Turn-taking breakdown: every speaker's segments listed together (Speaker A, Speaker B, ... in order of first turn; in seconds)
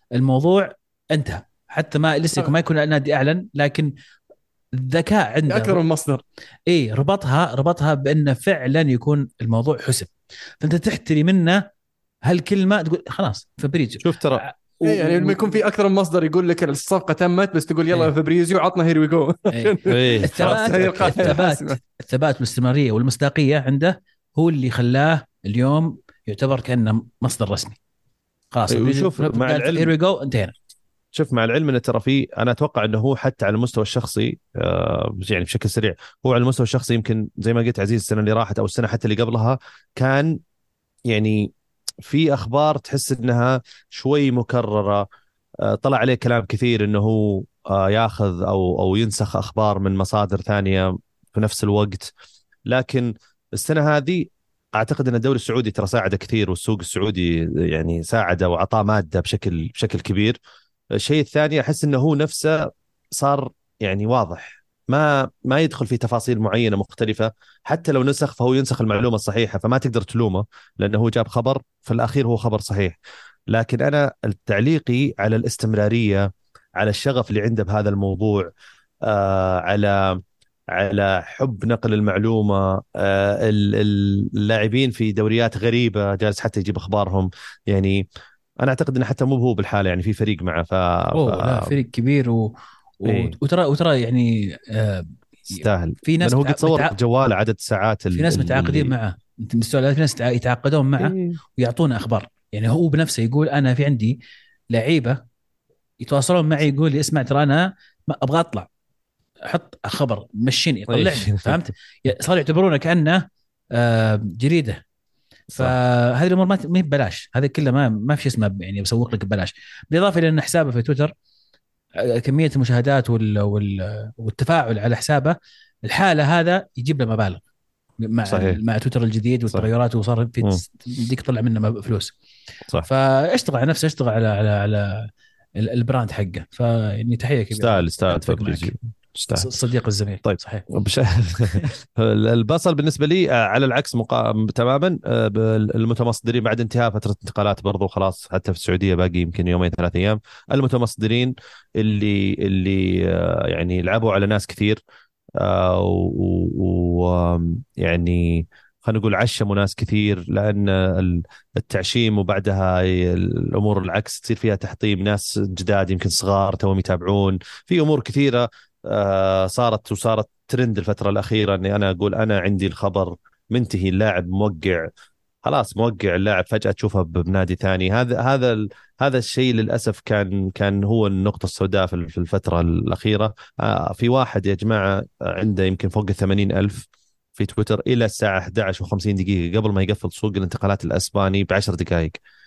Speaker A: 0.2-3.9, 4.7-5.8, 6.7-11.7, 12.2-15.6, 19.5-27.8, 28.5-30.5, 91.2-97.0, 98.1-104.2, 104.7-105.2, 106.0-108.7, 109.5-114.8, 115.6-121.1, 122.0-127.4, 128.0-132.1, 132.8-138.7, 139.3-140.7
Speaker B: 5.5-6.2, 14.8-21.8
Speaker C: 14.0-14.4, 19.9-21.4, 28.7-29.9, 31.1-40.4, 41.1-41.5, 42.0-45.0, 45.6-52.1, 52.7-60.4, 61.0-73.0, 73.5-78.5, 79.0-88.0, 88.6-91.7, 93.1-93.3, 95.5-98.9, 101.0-101.4, 110.9-111.6, 115.5-115.8, 128.3-128.6, 137.5-139.5, 140.2-154.8, 155.4-174.9, 175.4-186.8, 187.4-192.2